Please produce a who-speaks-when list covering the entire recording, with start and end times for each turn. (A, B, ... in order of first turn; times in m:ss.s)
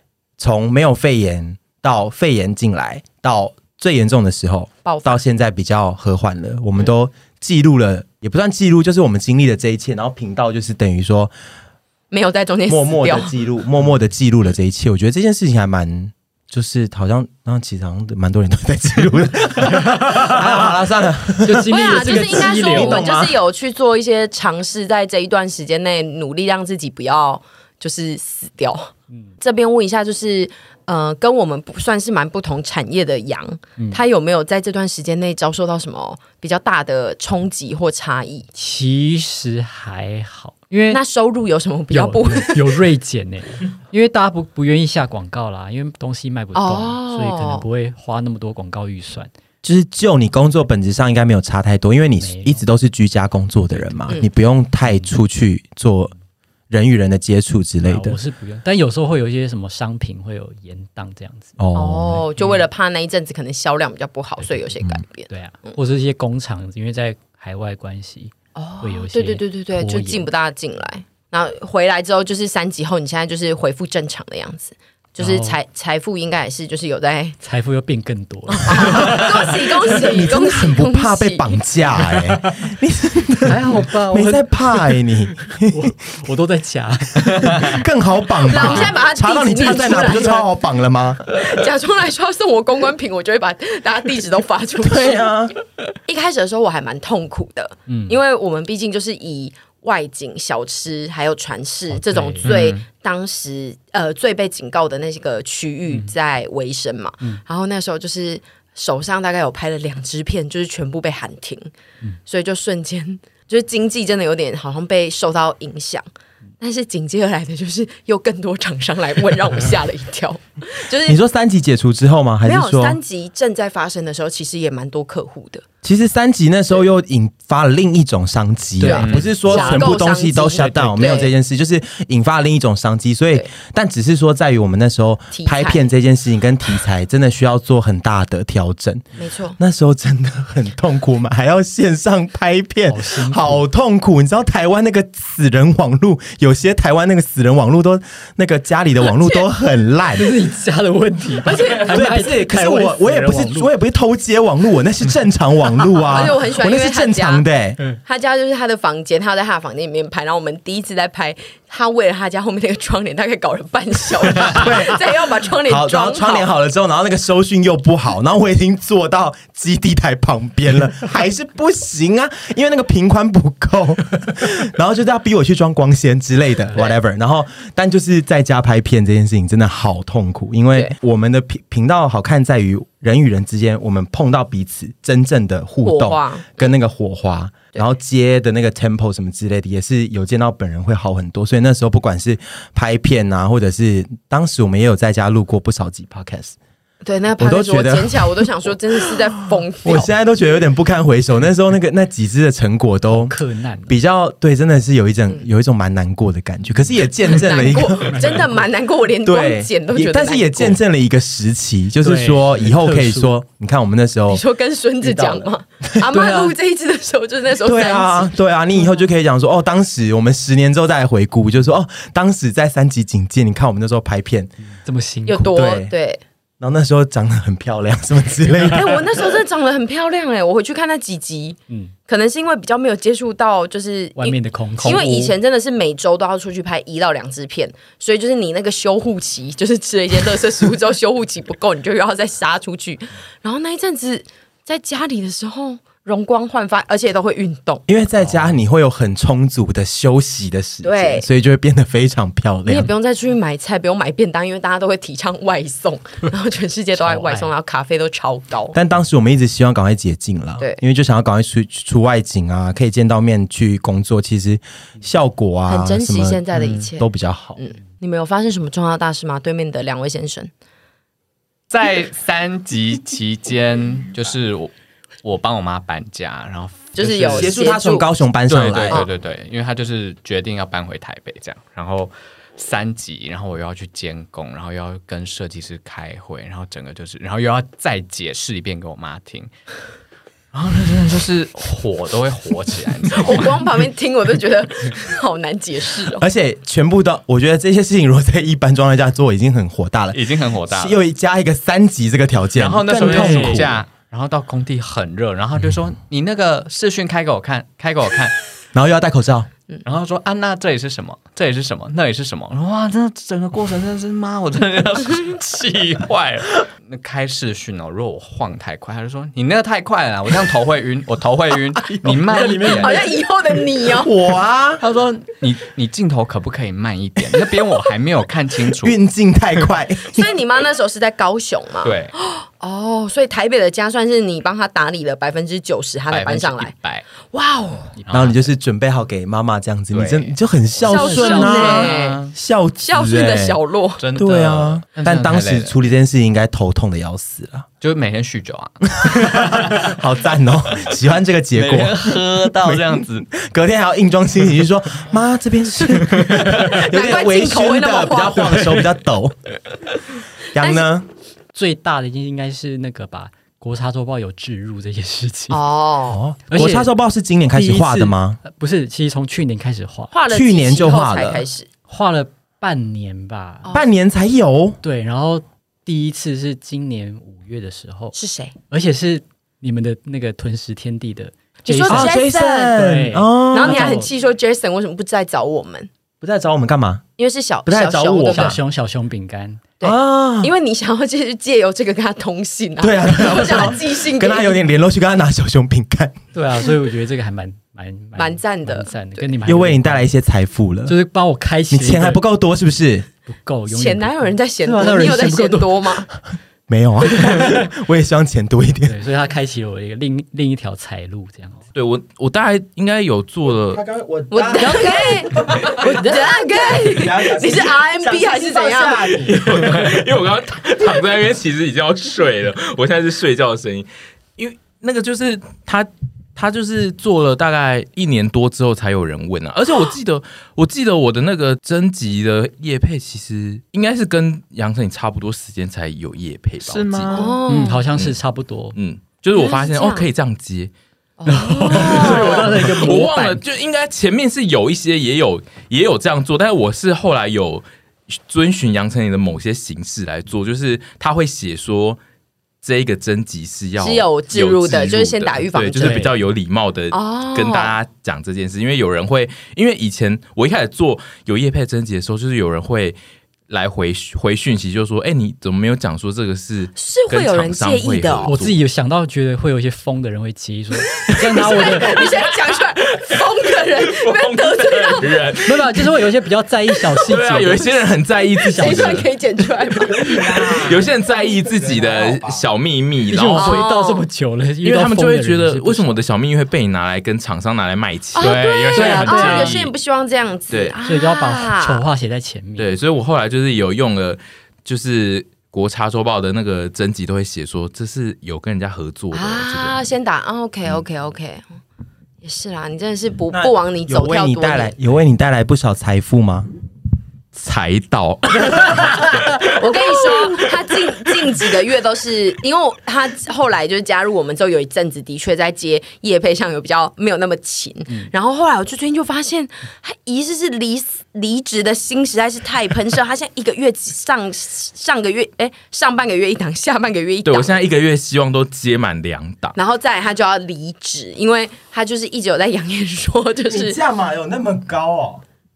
0:00.4-0:11.3 A
0:04.8-0:05.2 B
0:12.1-0:13.3 B
0:12.7-0:23.4 A
0:20.0-0:20.8 C
0:21.4-0:23.1 C
0:21.6-0:38.5 B
0:38.6-0:41.0 C
0:40.9-0:42.8 B
0:41.9-0:49.3 C
0:46.5-0:47.6 B
0:49.6-0:56.1 A
0:52.2-0:52.6 C
0:53.7-0:54.2 C
0:56.7-0:58.2 A
0:57.8-1:01.6 C
1:01.6-1:02.2 A
1:01.7-1:05.8 B
1:02.4-1:02.6 C
1:05.3-1:10.3 C
1:08.6-1:17.4 B
1:15.2-1:15.6 C
1:17.4-1:19.9 C
1:18.5-1:21.6 B
1:18.8-1:25.9 A
1:23.4-1:27.8 C
1:27.3-1:31.2 A
1:28.4-1:30.5 B
1:28.5-1:28.9 C
1:31.3-1:35.3 B
1:34.8-1:35.5 A
1:36.0-1:51.7 B
1:37.9-1:38.2 C
1:41.9-1:42.6 C
1:42.4-1:42.8 D
1:52.2-1:56.0 B
1:56.6-2:01.2 B
2:01.0-2:03.0 A
2:02.4-2:05.6 B
2:05.8-2:19.0 A
2:08.8-2:11.3 B
2:08.8-2:11.0 C
2:08.9-2:09.4 D
2:15.3-2:15.9 B
2:19.2-2:19.6 B
2:19.6-2:30.3 A
2:22.9-2:23.6 C
2:29.2-2:29.4 B
2:30.1-2:33.7 C
2:31.4-2:32.0 B
2:31.8-2:37.8 A
2:36.0-2:37.4 B
2:38.0-2:46.5 B
2:44.4-2:45.0 A
2:45.6-3:16.5 A
3:05.8-3:06.7 B
3:17.0-3:20.1 B
3:17.4-3:19.1 A
3:19.8-3:23.4 A
3:23.1-3:23.9 C
3:23.9-3:28.5 A
3:27.2-3:30.8 B
3:29.2-3:34.4 A
3:32.0-3:33.3 C
3:34.3-3:38.3 B
3:35.0-3:36.0 A
3:36.1-3:36.5 C
3:37.6-3:44.5 A
3:44.8-3:45.6 C
3:45.3-3:46.2 B
3:45.4-3:45.9 A
3:46.6-3:49.0 A
3:48.7-4:07.8 B
3:51.7-3:51.9 C
3:54.2-3:55.3 C
4:07.9-4:12.9 A
4:10.8-4:11.3 B
4:12.7-4:18.7 B
4:17.0-4:17.5 C
4:18.7-4:27.6 A
4:25.7-4:30.5 B
4:26.5-4:26.9 D
4:31.7-4:34.7 D
4:35.2-4:37.5 D
4:37.0-4:38.2 B
4:37.0-4:39.0 A
4:38.5-4:49.5 D
4:50.5-4:53.6 D
4:53.2-4:56.2 B
4:56.2-5:03.8 A
5:00.1-5:01.0 D
5:02.5-5:08.3 D
5:02.9-5:03.8 C
5:08.7-5:09.5 A
5:09.8-5:23.2 D
5:21.9-5:22.8 A
5:22.4-5:24.1 B
5:23.9-5:24.8 A
5:24.8-5:29.0 D
5:28.8-5:30.3 A
5:30.1-5:36.7 B
5:31.8-5:32.1 D
5:36.1-5:37.0 D
5:37.2-5:38.0 B
5:38.0-5:38.4 D
5:38.1-5:43.6 A
5:39.9-5:42.3 D
5:40.8-5:42.2 B
5:42.8-5:44.0 B
5:44.0-5:45.8 D
5:44.1-5:47.6 A
5:47.8-5:49.8 D
5:49.0-5:59.4 A
5:51.5-5:53.3 D
5:56.6-5:58.8 B
6:00.5-6:01.1 A
6:00.6-6:00.8 B
6:01.5-6:05.6 C
6:05.5-6:06.2 B
6:06.1-6:08.4 A
6:06.5-6:06.9 C
6:07.5-6:10.1 C
6:10.1-6:11.7 B
6:10.3-6:11.4 A
6:11.9-6:13.7 C
6:13.7-6:14.8 A
6:14.8-6:18.1 C
6:18.1-6:18.6 B
6:18.7-6:24.1 C
6:21.6-6:22.8 B
6:21.9-6:24.0 A
6:23.5-6:25.9 B
6:26.2-6:27.0 A
6:27.2-6:28.6 B
6:27.6-6:28.6 A
6:28.3-6:29.7 C
6:29.8-6:34.6 B
6:29.8-6:30.5 A
6:32.8-6:36.2 A
6:36.3-6:40.1 C
6:38.2-6:39.4 B
6:39.4-6:41.0 A
6:40.8-6:42.2 C
6:41.7-6:43.1 A
6:43.3-6:46.0 C
6:43.7-6:46.1 B
6:46.7-6:49.0 A
6:47.2-6:47.6 C
6:48.8-6:51.6 C
6:51.7-6:53.8 E
6:53.7-6:59.8 A
6:54.3-6:59.2 B
6:54.7-6:55.0 C
6:55.8-6:56.6 C
6:59.2-7:17.2 E
7:16.6-7:17.4 D
7:17.1-7:17.9 B
7:17.5-7:18.8 C
7:18.7-7:20.7 E
7:19.3-7:20.1 B
7:21.2-7:22.7 B
7:21.2-7:23.4 C
7:21.6-7:32.0 E
7:32.6-7:43.0 E
7:33.8-7:36.1 B
7:35.8-7:36.1 C
7:36.9-7:37.7 B
7:43.5-7:48.6 E
7:46.8-7:48.4 B
7:48.2-7:52.1 C
7:51.0-7:56.0 E
7:51.0-7:55.4 B
7:55.4-7:57.8 C
7:56.9-7:57.7 B
7:57.0-7:59.1 E
7:58.4-7:59.1 C
7:58.4-8:00.8 B
7:59.9-8:03.6 E
8:03.1-8:06.0 C
8:03.3-8:04.1 B
8:04.6-8:09.6 E
8:08.1-8:11.8 B
8:08.2-8:09.7 D
8:08.7-8:09.5 C
8:10.5-8:10.8 E
8:10.8-8:12.8 C
8:12.6-8:19.8 E
8:19.1-8:21.4 B
8:22.2-8:24.7 B
8:23.3-8:26.5 A
8:27.3-8:29.5 E
8:29.4-8:47.6 B
8:47.2-8:49.6 E
8:49.6-8:53.8 B
8:53.5-8:55.2 A